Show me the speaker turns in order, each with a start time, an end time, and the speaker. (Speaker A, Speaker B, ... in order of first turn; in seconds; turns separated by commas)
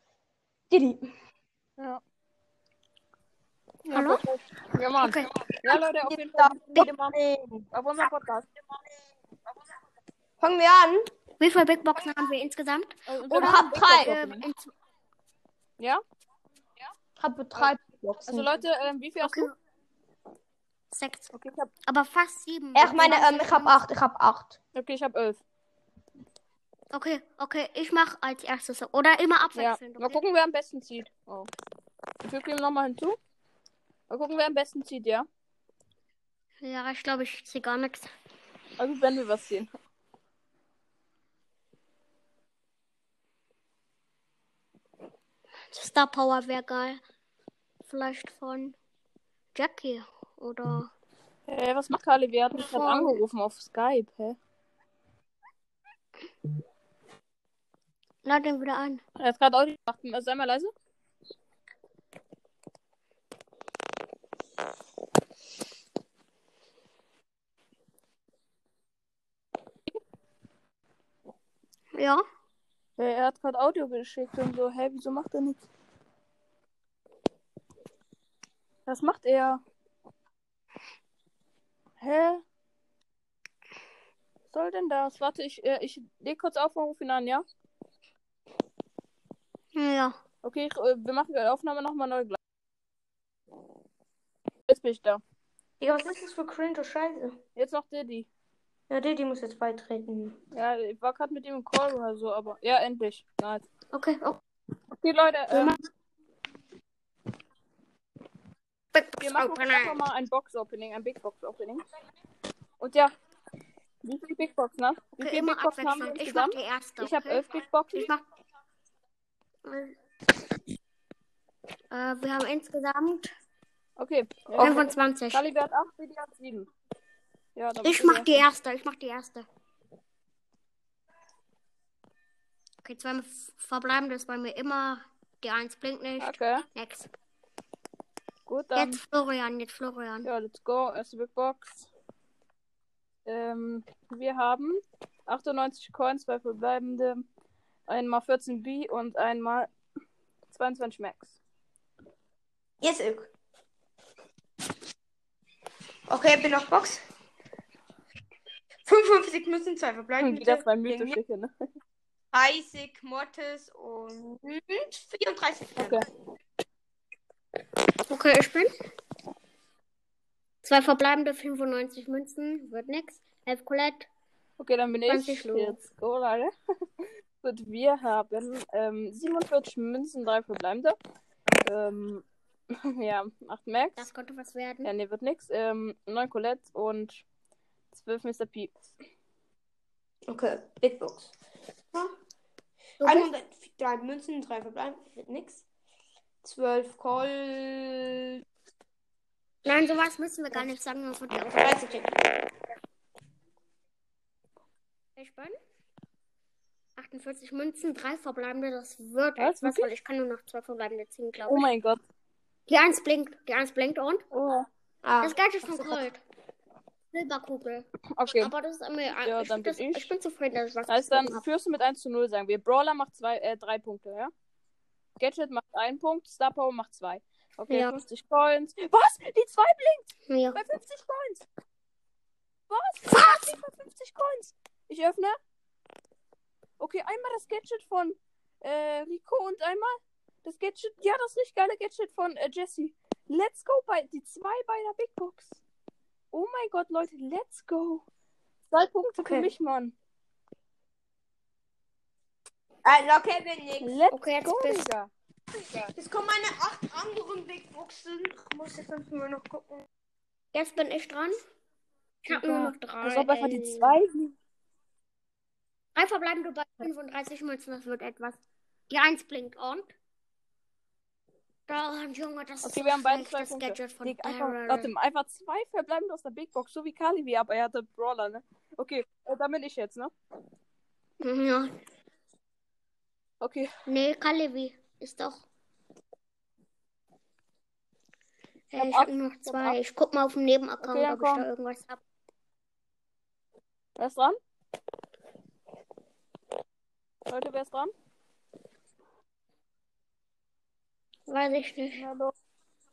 Speaker A: 0.7-1.0, Speaker B: 3.9-6.9, Speaker C: 3.9-4.2, Speaker C: 5.0-5.3, Speaker A: 5.7-7.7, Speaker B: 7.7-8.5, Speaker A: 10.4-11.0, Speaker C: 11.4-14.7, Speaker B: 13.1-14.5, Speaker A: 13.3-14.2, Speaker A: 17.2-18.5, Speaker B: 18.3-19.5, Speaker C: 19.2-19.5, Speaker C: 20.9-21.3, Speaker B: 21.3-21.7, Speaker C: 21.9-23.8, Speaker A: 22.8-24.6, Speaker B: 24.8-25.4, Speaker C: 26.9-30.2, Speaker B: 29.6-31.5, Speaker B: 32.2-33.2, Speaker B: 34.1-35.3, Speaker C: 36.6-38.1, Speaker B: 38.8-39.7, Speaker C: 45.7-47.0, Speaker C: 47.8-48.8, Speaker C: 49.5-50.9, Speaker B: 51.5-54.4, Speaker C: 52.5-53.2, Speaker C: 58.2-59.0, Speaker B: 59.2-60.7, Speaker C: 72.0-72.2, Speaker B: 73.0-75.6, Speaker B: 78.9-79.6, Speaker B: 82.0-82.4, Speaker B: 84.5-87.5, Speaker C: 89.7-90.2, Speaker B: 90.4-92.4, Speaker B: 94.7-95.2, Speaker A: 95.8-97.4, Speaker B: 97.6-98.3, Speaker A: 98.9-100.4, Speaker B: 100.5-103.7, Speaker C: 103.9-104.4, Speaker B: 105.0-105.8, Speaker C: 105.5-105.8, Speaker C: 108.9-110.0, Speaker B: 109.2-111.8, Speaker B: 112.8-113.1, Speaker B: 114.0-118.1, Speaker C: 115.2-118.2, Speaker C: 119.7-119.9, Speaker C: 121.9-123.3, Speaker B: 124.0-126.7, Speaker C: 124.6-125.4, Speaker B: 127.6-128.4, Speaker C: 127.8-129.5, Speaker C: 132.8-137.1, Speaker B: 136.2-136.7, Speaker B: 138.5-139.0, Speaker C: 138.7-140.3, Speaker B: 140.2-141.9, Speaker B: 143.3-147.3, Speaker B: 147.9-149.7, Speaker B: 150.5-151.4, Speaker A: 152.8-153.3, Speaker A: 156.1-157.0, Speaker A: 158.9-161.2, Speaker B: 160.2-161.5, Speaker A: 162.3-166.0, Speaker B: 165.8-166.1, Speaker C: 168.1-168.7, Speaker C: 170.6-174.1, Speaker B: 174.6-176.5, Speaker C: 175.1-175.8, Speaker B: 177.0-181.0, Speaker B: 181.6-182.2, Speaker B: 182.9-184.1, Speaker C: 184.0-184.9, Speaker B: 184.8-187.2, Speaker B: 187.9-188.7, Speaker A: 190.3-191.3, Speaker C: 193.0-193.3, Speaker A: 193.0-195.7, Speaker A: 196.4-198.4, Speaker C: 199.6-202.1, Speaker A: 201.6-202.2, Speaker C: 205.2-205.6, Speaker C: 207.0-211.7, Speaker B: 209.4-209.9, Speaker B: 211.5-212.0, Speaker C: 212.7-214.2, Speaker B: 214.3-214.7, Speaker A: 215.0-216.0, Speaker C: 215.2-216.2, Speaker C: 217.1-221.4, Speaker B: 218.2-218.5, Speaker B: 219.1-220.1, Speaker B: 220.9-224.3, Speaker B: 225.2-231.5, Speaker C: 227.7-228.0, Speaker C: 230.3-230.6, Speaker B: 232.7-235.4, Speaker C: 233.2-233.5, Speaker B: 236.8-245.6, Speaker B: 246.3-248.1, Speaker B: 248.7-249.9, Speaker A: 249.2-249.5, Speaker A: 252.8-253.9, Speaker B: 253.8-255.1, Speaker C: 254.1-254.9, Speaker A: 256.0-259.9, Speaker C: 260.5-261.4, Speaker C: 262.3-264.0, Speaker B: 262.3-264.3, Speaker C: 265.9-269.9, Speaker C: 271.7-274.9, Speaker B: 272.6-280.1, Speaker C: 281.2-281.7, Speaker B: 283.4-283.7, Speaker C: 283.9-285.4, Speaker C: 288.7-292.0, Speaker B: 288.8-289.8, Speaker B: 290.8-291.5, Speaker B: 294.0-294.4, Speaker B: 297.3-297.9, Speaker C: 301.3-302.1, Speaker B: 301.9-302.3